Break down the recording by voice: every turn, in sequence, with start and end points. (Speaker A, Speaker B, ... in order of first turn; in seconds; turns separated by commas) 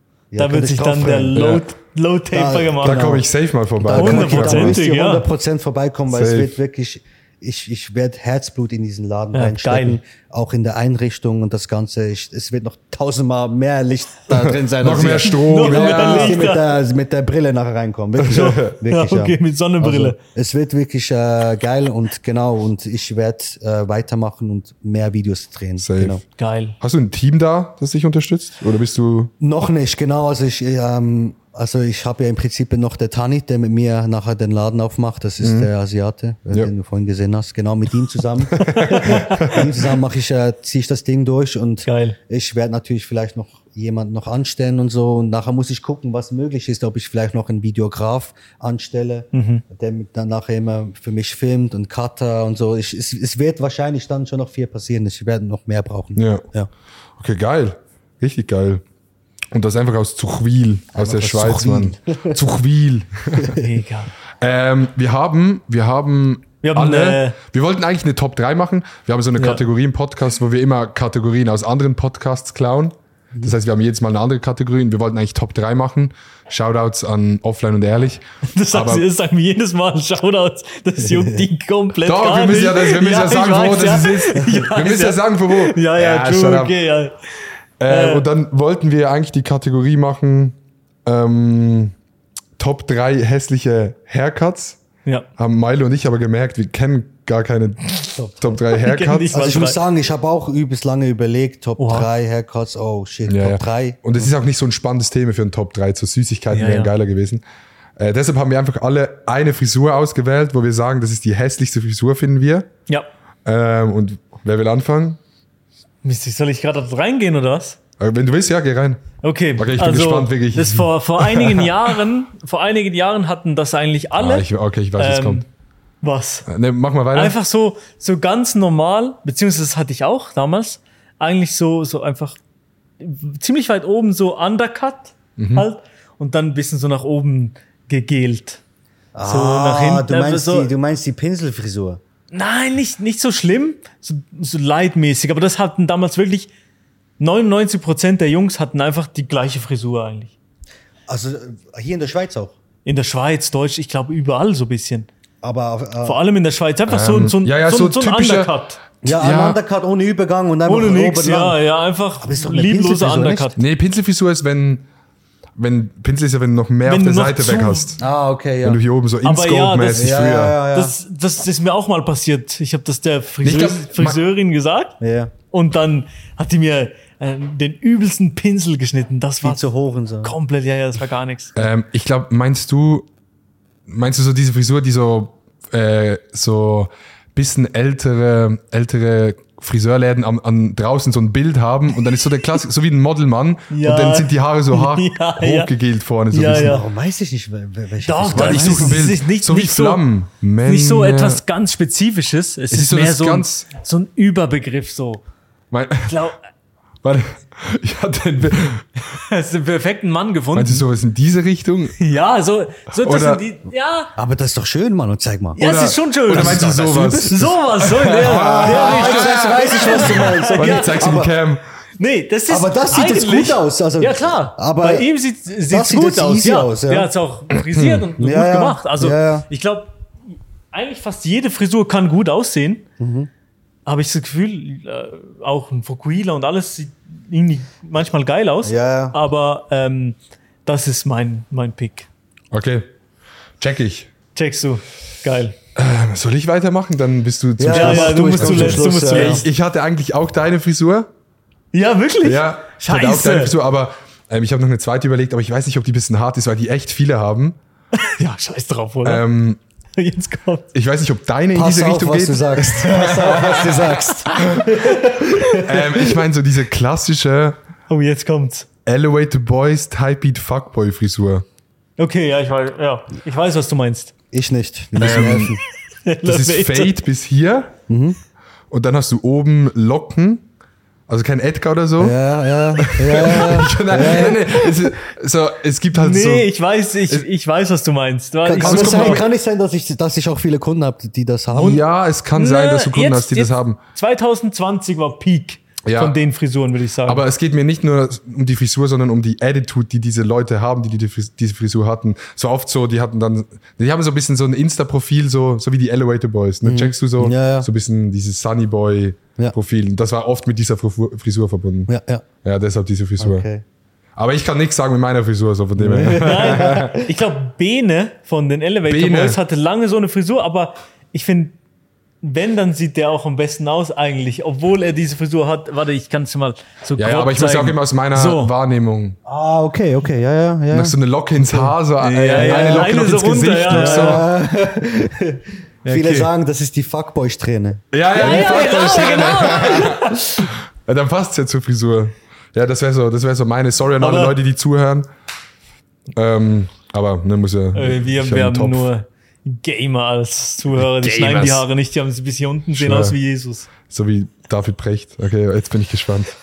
Speaker A: 0.3-1.5, Speaker B: 0.4-3.1, Speaker C: 1.3-1.6, Speaker A: 2.3-3.2, Speaker C: 2.8-4.8, Speaker A: 3.8-26.2, Speaker B: 3.9-5.2, Speaker C: 6.1-6.5, Speaker B: 9.3-10.0, Speaker C: 14.3-16.4, Speaker B: 15.2-16.7, Speaker C: 18.2-18.7, Speaker B: 18.3-20.2, Speaker C: 25.8-26.2, Speaker B: 26.4-26.8, Speaker C: 26.8-29.3, Speaker A: 29.4-56.7, Speaker C: 35.4-35.7, Speaker C: 38.5-39.6, Speaker B: 39.0-39.6, Speaker B: 41.9-42.1, Speaker B: 49.3-49.6, Speaker C: 56.1-56.4, Speaker C: 57.2-58.8, Speaker C: 59.5-63.6, Speaker A: 60.9-62.4, Speaker A: 63.3-63.7, Speaker B: 63.6-64.1, Speaker C: 64.4-79.0, Speaker B: 66.6-67.4, Speaker B: 69.4-69.6, Speaker B: 78.5-87.2, Speaker A: 81.0-81.5, Speaker C: 82.0-86.8, Speaker C: 87.8-91.9, Speaker B: 87.9-88.2, Speaker C: 92.6-94.8, Speaker C: 95.4-99.3, Speaker A: 98.1-98.6, Speaker B: 98.7-99.8, Speaker A: 99.3-104.3, Speaker B: 101.8-102.1, Speaker C: 103.3-107.4, Speaker B: 106.5-106.9, Speaker C: 108.0-112.7, Speaker C: 113.4-115.2, Speaker B: 116.0-117.8, Speaker C: 118.0-119.0, Speaker B: 119.2-125.5, Speaker C: 119.6-121.9, Speaker C: 124.2-125.4, Speaker B: 126.0-126.5, Speaker C: 126.5-127.3, Speaker B: 127.1-132.4, Speaker B: 133.0-138.6, Speaker C: 135.4-135.7, Speaker A: 139.1-142.0, Speaker B: 139.2-140.7, Speaker B: 142.3-146.5, Speaker B: 147.2-150.3, Speaker A: 151.1-152.5, Speaker B: 152.8-155.1, Speaker A: 155.4-156.2, Speaker B: 156.0-158.8, Speaker C: 156.9-159.6, Speaker A: 159.0-161.6, Speaker B: 160.7-163.6, Speaker A: 162.2-163.5, Speaker C: 163.6-164.8, Speaker C: 165.6-168.0, Speaker B: 166.8-167.9, Speaker A: 168.0-168.8, Speaker C: 168.6-170.6, Speaker B: 169.2-170.2, Speaker A: 169.9-170.9, Speaker B: 170.7-174.9, Speaker C: 173.4-174.2, Speaker A: 175.0-175.3, Speaker B: 175.5-179.6, Speaker A: 179.4-180.3, Speaker B: 180.2-181.5, Speaker C: 181.6-183.1, Speaker C: 183.9-196.8, Speaker B: 193.7-195.7, Speaker B: 196.3-196.8, Speaker A: 196.4-199.1, Speaker B: 198.0-200.0, Speaker C: 198.3-201.4, Speaker B: 200.6-205.2, Speaker C: 202.7-203.7, Speaker C: 205.7-206.2, Speaker B: 206.1-206.4, Speaker C: 207.0-208.9, Speaker B: 209.1-210.8, Speaker C: 210.5-212.0, Speaker B: 212.0-214.1, Speaker C: 213.0-213.4, Speaker A: 214.2-215.6, Speaker B: 215.6-221.0, Speaker C: 215.6-221.6, Speaker A: 216.3-217.4, Speaker A: 218.2-221.3, Speaker B: 222.0-229.9, Speaker A: 222.5-225.1, Speaker A: 225.7-227.1, Speaker C: 227.5-228.1, Speaker A: 228.2-229.5, Speaker B: 230.7-232.8, Speaker A: 233.0-233.3, Speaker B: 233.8-242.1, Speaker A: 238.6-239.2, Speaker C: 242.5-242.9, Speaker C: 243.6-244.1, Speaker B: 244.3-245.5, Speaker C: 245.8-251.1, Speaker A: 247.6-249.4, Speaker B: 247.7-249.5, Speaker B: 251.7-253.5, Speaker C: 252.2-257.6, Speaker B: 257.9-259.2, Speaker C: 259.0-259.6, Speaker B: 259.9-260.7, Speaker C: 260.7-264.7, Speaker A: 261.5-266.2, Speaker B: 264.2-265.6, Speaker C: 265.6-267.6, Speaker B: 267.9-268.7, Speaker C: 268.9-271.4, Speaker B: 272.0-274.1, Speaker A: 274.3-275.6, Speaker C: 275.0-275.6, Speaker B: 276.1-276.9, Speaker C: 276.2-277.7, Speaker A: 277.9-278.2, Speaker C: 278.7-280.4, Speaker C: 281.1-282.2, Speaker A: 282.0-284.7, Speaker C: 282.8-286.5, Speaker B: 285.9-289.2, Speaker A: 288.4-291.8, Speaker C: 288.6-289.2, Speaker C: 291.5-293.8, Speaker B: 292.3-297.2, Speaker C: 295.8-296.2, Speaker C: 297.1-311.9, Speaker A: 306.6-307.7, Speaker A: 311.9-312.2, Speaker C: 312.4-313.5, Speaker A: 313.2-313.6, Speaker C: 314.1-316.9, Speaker A: 315.8-317.0, Speaker B: 316.1-321.6, Speaker C: 318.9-319.4, Speaker B: 322.2-328.5, Speaker C: 327.0-329.2, Speaker A: 329.2-331.7, Speaker C: 330.7-334.2, Speaker B: 332.0-334.2, Speaker A: 332.4-333.0, Speaker A: 333.7-338.5, Speaker B: 335.8-336.3, Speaker C: 337.9-345.1, Speaker B: 338.1-340.5, Speaker B: 344.0-344.4, Speaker C: 346.1-348.9, Speaker B: 347.7-353.7, Speaker C: 350.8-351.6, Speaker C: 352.7-353.2, Speaker C: 353.9-356.3